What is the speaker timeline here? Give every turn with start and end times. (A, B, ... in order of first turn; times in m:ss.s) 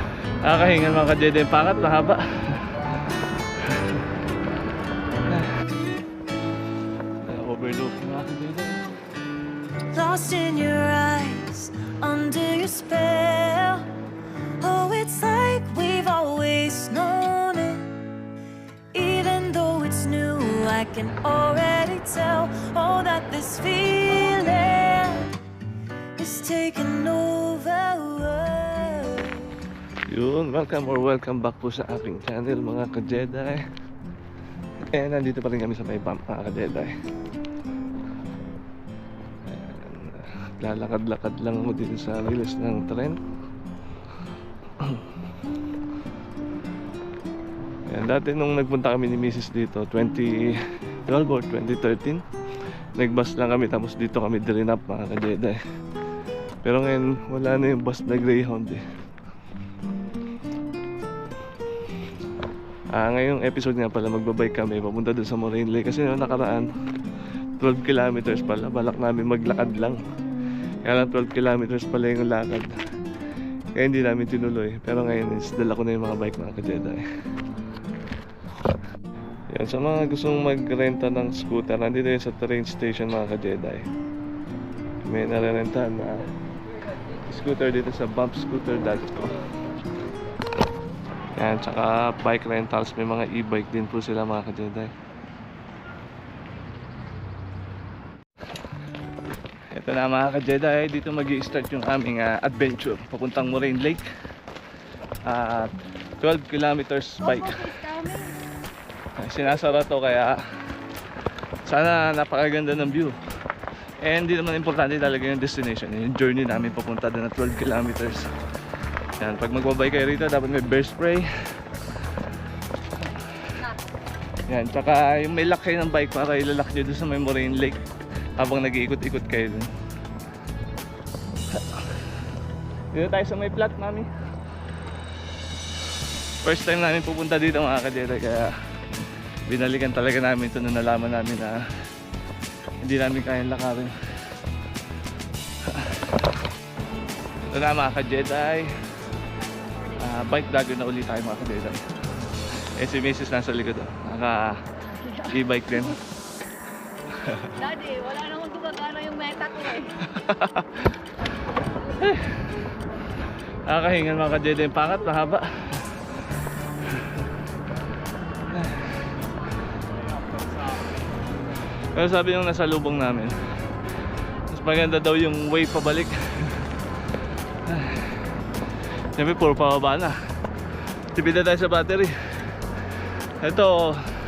0:00.4-0:02.6 A
0:03.6-0:04.0 A
0:07.2-0:08.9 A
0:09.9-0:13.9 B
0:14.6-0:18.0 B
0:18.9-0:25.3 B
0:26.2-0:29.6 B
0:30.1-0:33.6 A
0:34.9-0:36.9 A
0:39.4-0:43.2 A
0:44.8-0:45.1 A
0:47.9-0:52.2 A
0:53.0-0:55.6 A
0:56.6-0:58.8 A
1:02.9-1:06.7 A
1:07.6-1:10.0 A
1:10.8-1:12.7 A
1:13.8-1:17.0 A
1:19.5-1:23.9 A
1:25.0-1:26.2 A
1:27.3-1:29.3 A
1:31.4-1:34.9 A
1:39.7-1:44.1 A
1:45.3-1:47.6 A
1:47.2-1:48.4 C
1:49.2-1:50.4 A
1:51.7-1:53.2 A
1:54.0-1:58.3 A
1:59.2-2:01.3 A
2:04.5-2:07.8 A
2:08.4-2:09.7 A
2:11.5-2:12.0 A
2:12.9-2:14.1 A
2:16.4-2:18.5 A
2:19.5-2:21.6 A
2:22.8-2:24.0 A
2:25.6-2:26.1 A
2:27.5-2:28.7 A
2:29.5-2:30.4 C
2:30.0-2:31.8 A
2:32.8-2:34.6 A
2:35.0-2:35.3 C
2:35.2-2:36.0 A
2:37.2-2:37.5 A
2:37.6-2:39.9 C
2:40.1-2:40.9 A
2:42.0-2:42.3 A
2:43.7-2:45.8 A
2:48.5-2:48.9 A
2:51.9-2:53.4 A
2:54.5-2:56.7 A
2:57.7-2:58.2 A
2:59.2-3:00.2 A
3:01.1-3:02.1 A
3:03.4-3:04.0 A